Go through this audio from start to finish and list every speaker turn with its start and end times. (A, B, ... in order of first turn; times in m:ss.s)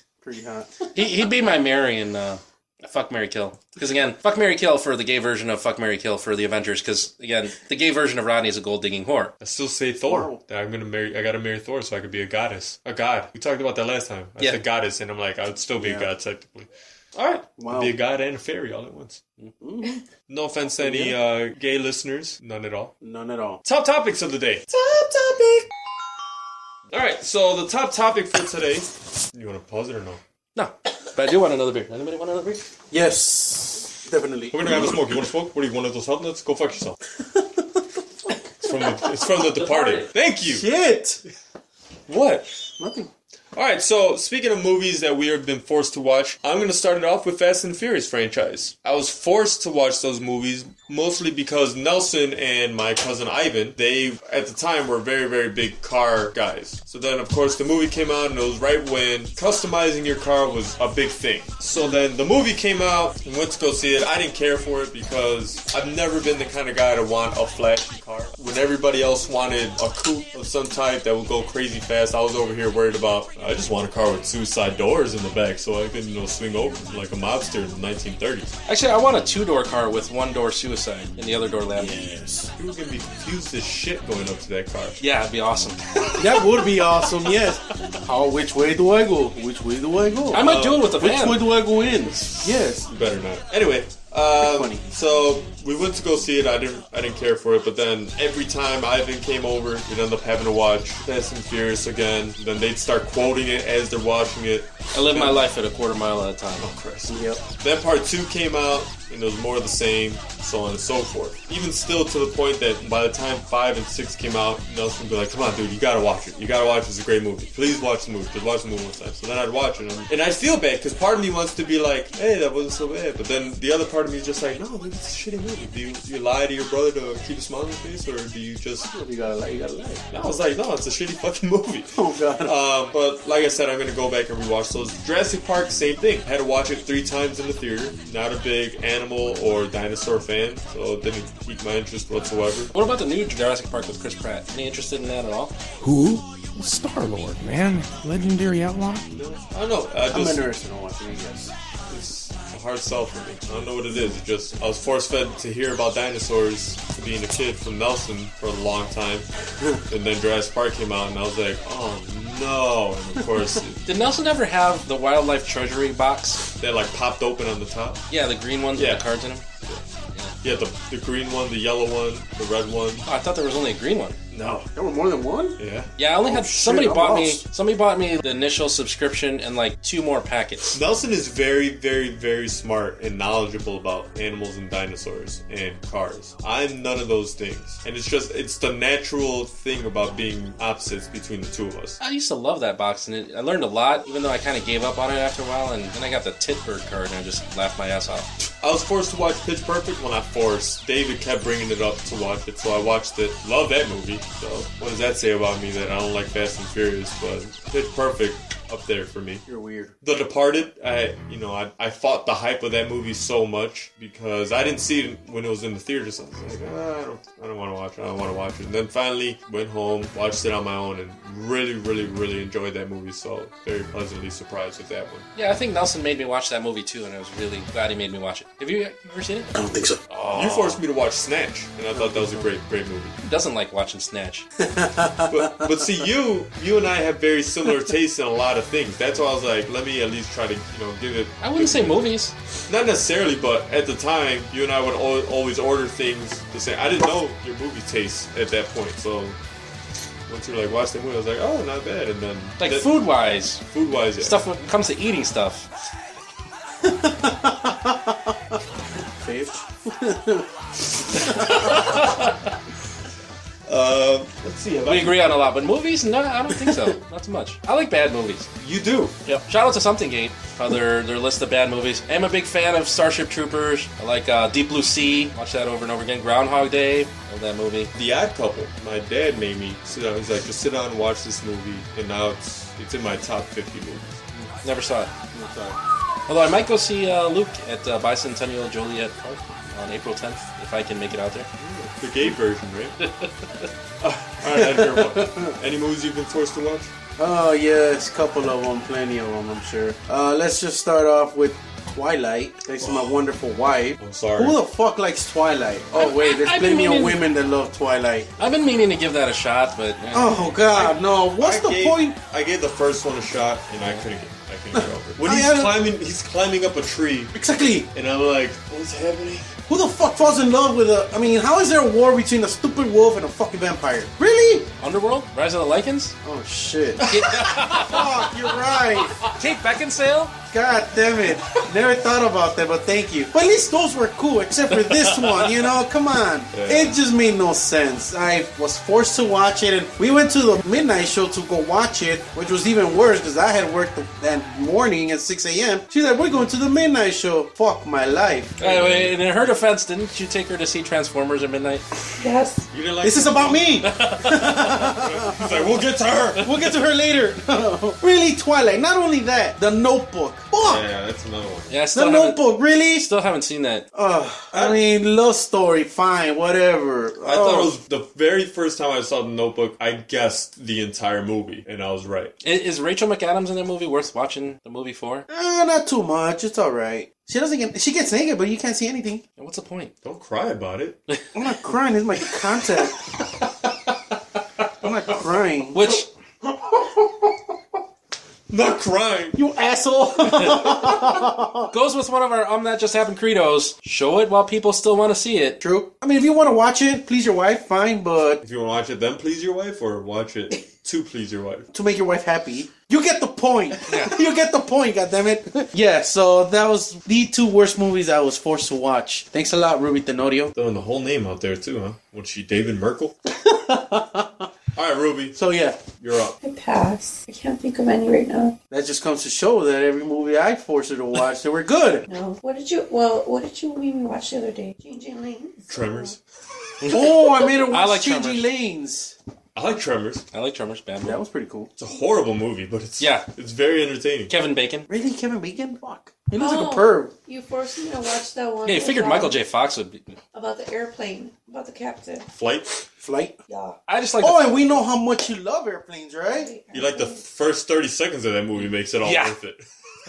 0:00.2-0:00.9 A
0:00.9-0:09.3 B
0:09.4-0:19.2 C
0:10.0-0:10.4 A
0:15.8-0:16.1 A
0:17.6-0:17.9 A
0:19.6-0:20.0 A
0:20.3-0:22.9 C
0:20.8-0:21.2 A
0:23.0-0:23.6 A
0:23.6-0:25.7 C
0:26.9-0:30.2 C
0:30.5-0:32.6 B
0:32.9-0:34.8 A
0:34.5-0:37.0 C
0:37.3-0:37.6 A
0:38.6-0:40.7 C
0:39.5-0:40.1 B
0:40.4-0:41.2 A
0:42.1-0:42.6 C
0:42.8-0:43.1 A
0:43.5-1:18.6 C
1:18.7-1:22.0 B
1:21.8-1:22.5 A
1:22.5-1:25.0 C
1:25.0-1:26.4 B
1:26.2-1:32.9 A
1:30.3-1:31.4 B
1:30.3-1:30.8 C
1:32.2-1:45.4 C
1:34.4-1:34.8 A
1:44.9-1:46.7 B
1:46.6-2:08.9 C
1:47.1-1:47.4 A
2:08.9-2:10.1 A
2:10.1-2:22.7 C
2:11.9-2:12.6 A
2:22.7-2:25.5 B
2:25.8-2:29.1 D
2:29.1-2:30.5 C
2:30.1-2:31.5 A
2:31.9-2:39.3 C
2:39.9-2:43.8 C
2:43.8-2:46.4 B
2:46.6-2:48.0 C
2:48.1-2:49.4 B
2:48.8-2:49.0 C
2:50.4-2:53.0 C
2:53.0-2:54.2 B
2:54.3-2:54.6 C
2:54.6-2:55.6 A
2:55.6-2:55.9 C
2:56.0-3:00.8 B
2:56.2-2:57.4 A
3:00.7-3:12.0 C
3:12.0-3:18.3 B
3:18.6-3:29.4 C
3:29.4-3:29.9 A
3:30.0-3:45.3 C
3:45.4-3:49.5 B
3:49.5-3:50.0 A
3:50.1-3:50.8 B
3:50.1-3:53.2 C
3:51.9-3:52.4 A
3:53.2-3:54.5 B
3:54.6-3:55.9 A
3:55.3-4:02.0 C
4:01.4-4:02.3 B
4:02.7-4:09.4 C
4:10.3-4:13.0 C
4:12.6-4:13.6 B
4:13.7-4:14.4 C
4:14.2-4:15.7 B
4:16.8-4:18.3 A
4:19.2-4:20.5 A
4:21.2-4:21.4 A
4:21.4-4:22.2 B
4:23.7-4:25.4 C
4:24.8-4:28.5 B
4:28.6-4:29.2 C
4:29.2-4:37.9 B
4:37.9-4:44.1 C
4:44.6-4:45.1 B
4:45.3-4:45.8 A
4:46.3-4:51.5 B
4:51.6-4:53.0 C
4:53.0-4:53.3 B
4:54.0-4:56.9 C
4:54.4-4:55.5 A
4:57.2-5:08.3 A
5:04.0-5:04.6 C
5:05.9-5:07.2 B
5:08.4-5:10.5 B
5:10.1-5:12.2 A
5:10.7-5:17.3 C
5:14.7-5:15.8 A
5:17.3-5:17.9 A
5:17.9-5:19.5 C
5:19.7-5:24.7 A
5:24.8-5:26.2 B
5:26.2-5:27.1 A
5:27.0-5:28.0 C
5:27.0-5:28.0 B
5:27.6-5:29.2 A
5:29.2-5:30.3 B
5:30.5-5:48.6 A
5:35.1-5:35.4 B
5:36.5-5:37.0 C
5:48.6-5:49.1 C
5:48.6-5:51.8 B
5:52.7-5:56.8 C
5:53.0-5:55.7 A
5:53.8-5:54.3 B
5:56.4-6:00.8 A
6:00.6-6:01.7 C
6:01.7-6:02.4 B
6:01.9-6:03.1 A
6:03.0-6:03.8 B
6:03.9-6:07.7 A
6:04.5-6:04.8 C
6:07.2-6:12.3 C
6:12.4-6:15.3 B
6:15.3-6:19.2 A
6:19.4-6:19.9 B
6:20.0-6:21.0 C
6:21.3-6:23.0 A
6:24.8-6:25.9 A
6:25.7-6:26.1 B
6:26.5-6:27.1 C
6:28.5-6:29.4 C
6:29.3-6:31.7 A
6:31.7-6:35.6 B
6:35.6-6:38.4 A
6:38.4-6:41.7 C
6:41.7-6:50.5 A
6:43.9-6:44.2 B
6:50.5-6:53.2 C
6:53.3-6:54.5 A
6:54.8-6:55.4 C
6:55.3-6:55.8 A
6:56.0-6:56.4 C
6:56.4-6:58.6 E
6:58.7-7:02.1 A
7:02.1-7:06.1 E
7:05.7-7:06.2 C
7:06.8-7:08.4 B
7:06.9-7:09.2 A
7:09.5-7:10.2 C
7:10.3-7:11.2 B
7:11.0-7:11.7 A
7:11.8-7:14.3 C
7:13.0-7:13.3 B
7:14.3-7:14.9 B
7:14.9-7:17.1 A
7:16.4-7:19.4 E
7:18.6-7:20.2 B
7:20.3-7:22.3 E
7:22.3-7:22.8 C
7:23.0-7:23.4 A
7:23.5-7:23.8 E
7:23.9-7:24.8 B
7:24.2-7:26.5 A
7:26.3-7:27.2 E
7:26.7-7:29.6 C
7:29.0-7:29.4 B